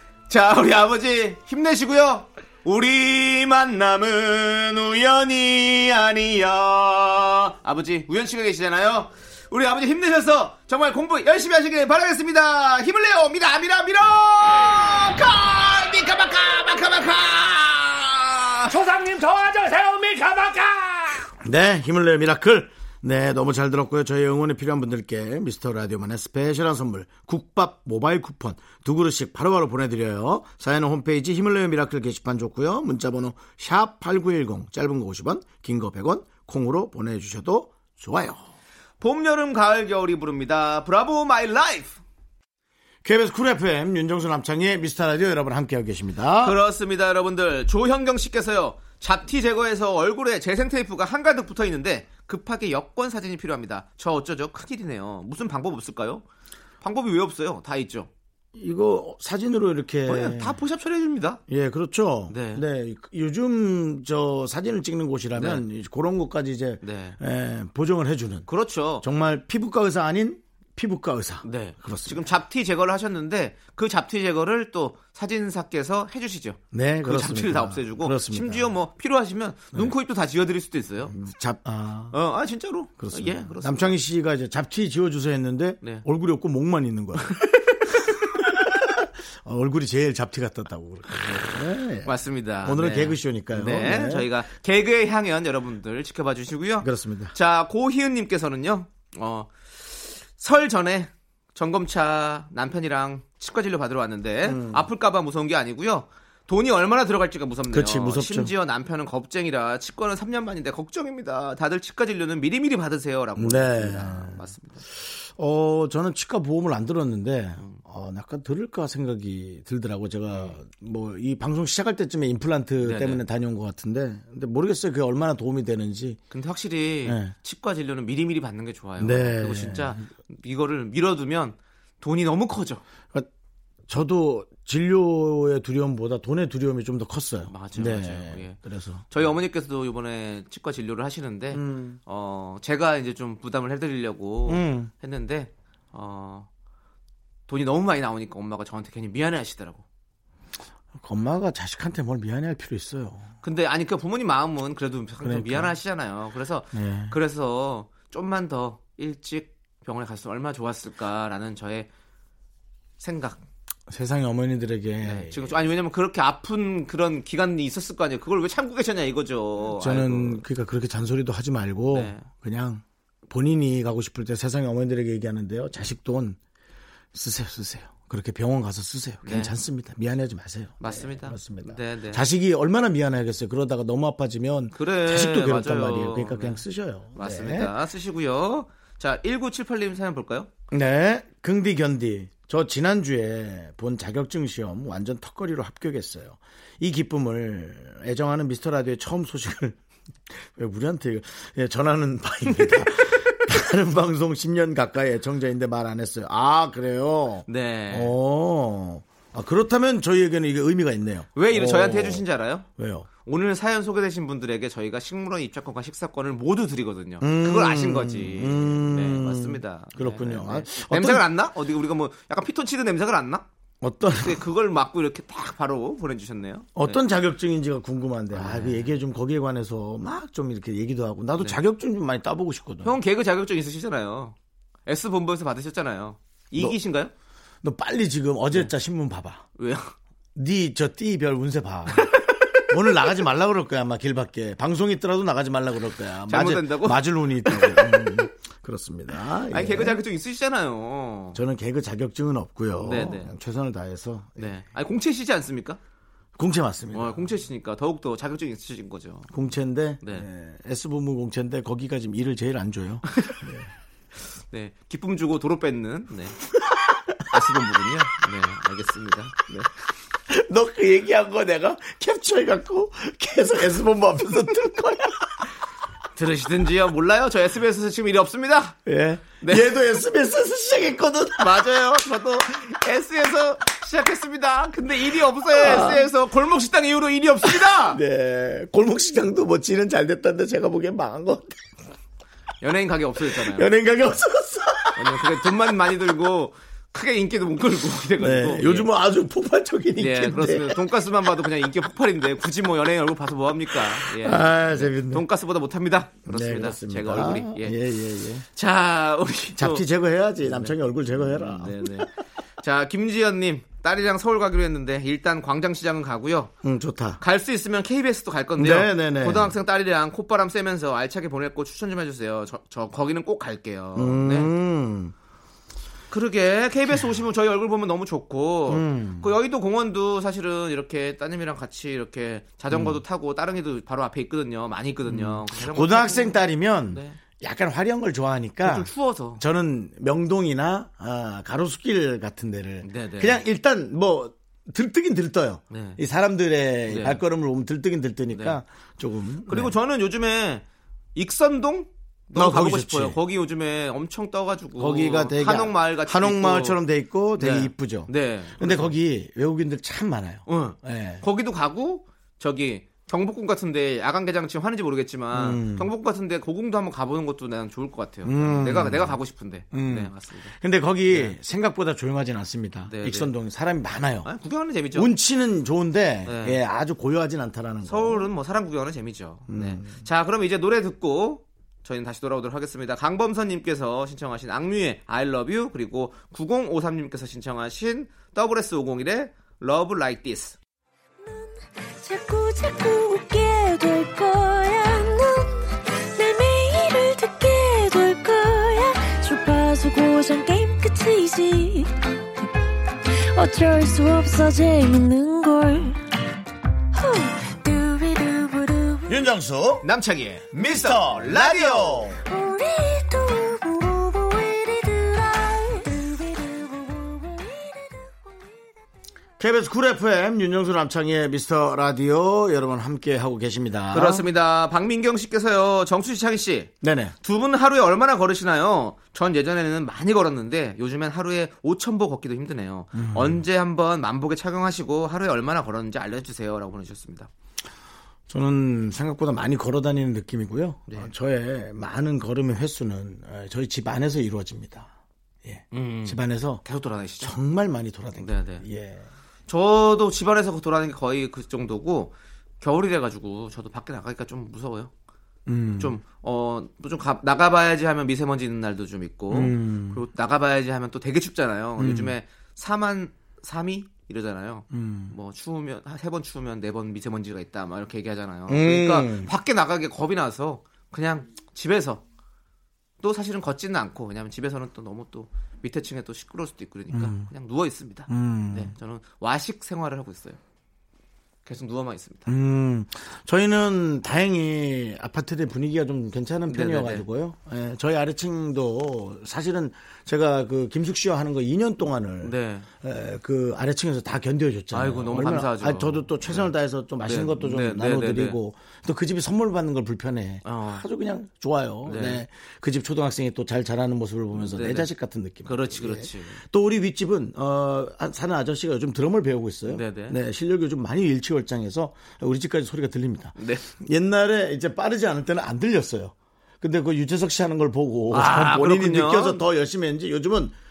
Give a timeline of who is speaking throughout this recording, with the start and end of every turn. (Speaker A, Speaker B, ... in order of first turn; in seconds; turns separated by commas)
Speaker A: 0.3-18.8, Speaker B: 18.7-21.2, Speaker C: 21.4-38.4, Speaker A: 39.0-41.9, Speaker C: 43.0-46.6, Speaker A: 46.4-56.2, Speaker A: 56.8-58.1, Speaker C: 58.5-60.6, Speaker A: 60.0-61.4, Speaker C: 61.5-68.5, Speaker A: 62.3-62.6, Speaker A: 65.3-65.6, Speaker A: 66.8-67.2, Speaker A: 68.5-69.0, Speaker C: 69.0-72.3, Speaker A: 71.4-81.1, Speaker C: 76.7-78.7, Speaker C: 81.1-82.2, Speaker A: 82.1-83.9, Speaker C: 83.0-87.4, Speaker C: 88.3-94.3, Speaker A: 92.0-114.8, Speaker C: 96.8-97.3, Speaker C: 104.4-104.9, Speaker C: 107.7-108.5, Speaker C: 113.4-114.4, Speaker C: 115.3-126.2, Speaker A: 120.3-120.6, Speaker A: 122.8-123.2, Speaker A: 126.3-132.8, Speaker C: 127.0-127.3, Speaker C: 129.0-130.1, Speaker C: 133.9-139.1, Speaker A: 137.5-138.6, Speaker A: 139.1-146.5, Speaker C: 141.5-142.0, Speaker C: 144.5-144.9, Speaker A: 147.5-149.8, Speaker C: 150.9-153.3, Speaker A: 153.4-161.9, Speaker C: 155.2-155.7, Speaker C: 156.7-157.1, Speaker A: 163.0-163.4, Speaker C: 163.9-165.6, Speaker A: 165.0-170.4, Speaker C: 169.7-176.4, Speaker A: 171.9-172.2, Speaker C: 177.1-187.7, Speaker A: 179.2-179.5, Speaker A: 180.8-182.2, Speaker A: 184.7-186.6, Speaker A: 187.2-190.5, Speaker C: 190.7-199.8, Speaker C: 200.3-212.2, Speaker A: 207.5-208.1, Speaker A: 211.3-212.7, Speaker C: 212.8-213.1, Speaker A: 213.2-223.4, Speaker C: 217.2-221.2, Speaker C: 223.8-224.4, Speaker A: 224.2-227.0, Speaker C: 226.7-233.0, Speaker A: 228.3-228.9, Speaker A: 232.8-234.3, Speaker A: 234.9-237.1, Speaker C: 237.6-239.4, Speaker A: 239.6-239.9, Speaker C: 240.3-250.0, Speaker A: 246.3-248.2, Speaker A: 249.5-251.4, Speaker C: 251.3-254.5, Speaker A: 252.8-253.3, Speaker A: 254.4-255.8, Speaker C: 256.4-257.3, Speaker A: 256.9-259.3, Speaker C: 259.3-263.7, Speaker A: 260.0-260.3, Speaker A: 263.1-263.4, Speaker A: 264.5-266.4, Speaker A: 267.2-269.7, Speaker C: 270.3-275.4, Speaker A: 276.1-278.8, Speaker C: 278.9-281.6, Speaker A: 279.4-279.7, Speaker A: 281.4-288.0, Speaker C: 285.5-286.1, Speaker C: 287.4-291.6, Speaker A: 292.6-293.7, Speaker C: 293.2-295.5, Speaker A: 294.9-298.9, Speaker C: 298.2-300.8, Speaker A: 300.0-307.7, Speaker C: 303.9-305.2, Speaker C: 306.2-308.4, Speaker A: 308.5-309.8, Speaker C: 309.5-312.1, Speaker A: 310.4-316.5, Speaker C: 316.6-317.2, Speaker A: 317.2-324.5, Speaker C: 318.6-319.6, Speaker C: 323.9-325.1, Speaker A: 326.1-337.2, Speaker C: 328.7-329.3, Speaker C: 332.7-333.0, Speaker C: 335.1-349.7, Speaker A: 338.6-339.4, Speaker A: 342.8-343.4, Speaker A: 345.7-346.0, Speaker A: 346.9-347.2, Speaker A: 348.3-348.6, Speaker A: 349.5-350.6, Speaker A: 351.1-356.8, Speaker C: 352.3-353.2, Speaker C: 354.8-361.2, Speaker A: 357.4-358.9, Speaker A: 360.5-370.5, Speaker C: 365.3-365.9, Speaker C: 368.2-369.2, Speaker C: 369.7-374.3, Speaker A: 371.1-371.4, Speaker A: 372.9-373.3, Speaker A: 374.2-375.1, Speaker C: 374.9-378.3, Speaker A: 376.2-376.6, Speaker A: 377.9-390.6, Speaker C: 379.5-380.0, Speaker D: 391.2-401.9, Speaker D: 403.1-406.0, Speaker D: 406.9-409.1, Speaker C: 409.1-409.9, Speaker A: 409.8-412.1, Speaker C: 410.5-412.2, Speaker D: 412.3-418.3, Speaker C: 419.4-424.2, Speaker A: 423.9-437.3, Speaker C: 426.8-427.1, Speaker C: 432.9-433.4, Speaker C: 438.3-444.9, Speaker C: 445.4-446.6, Speaker A: 445.7-447.3, Speaker C: 447.2-449.1, Speaker A: 448.2-448.6, Speaker A: 449.5-454.9, Speaker C: 455.5-456.0, Speaker A: 455.8-472.0, Speaker C: 459.3-460.0, Speaker C: 461.8-462.1, Speaker C: 464.7-465.1, Speaker C: 468.5-469.3, Speaker A: 473.0-480.4, Speaker C: 476.9-477.3, Speaker C: 478.1-478.7, Speaker A: 481.4-482.3, Speaker C: 482.3-520.5, Speaker A: 486.5-487.0, Speaker A: 492.2-492.7, Speaker A: 494.7-496.5, Speaker A: 497.0-498.4, Speaker A: 500.4-500.8, Speaker A: 501.9-502.2, Speaker A: 504.3-504.9, Speaker A: 505.4-506.4, Speaker A: 509.6-510.2, Speaker A: 513.4-513.7, Speaker A: 518.1-519.4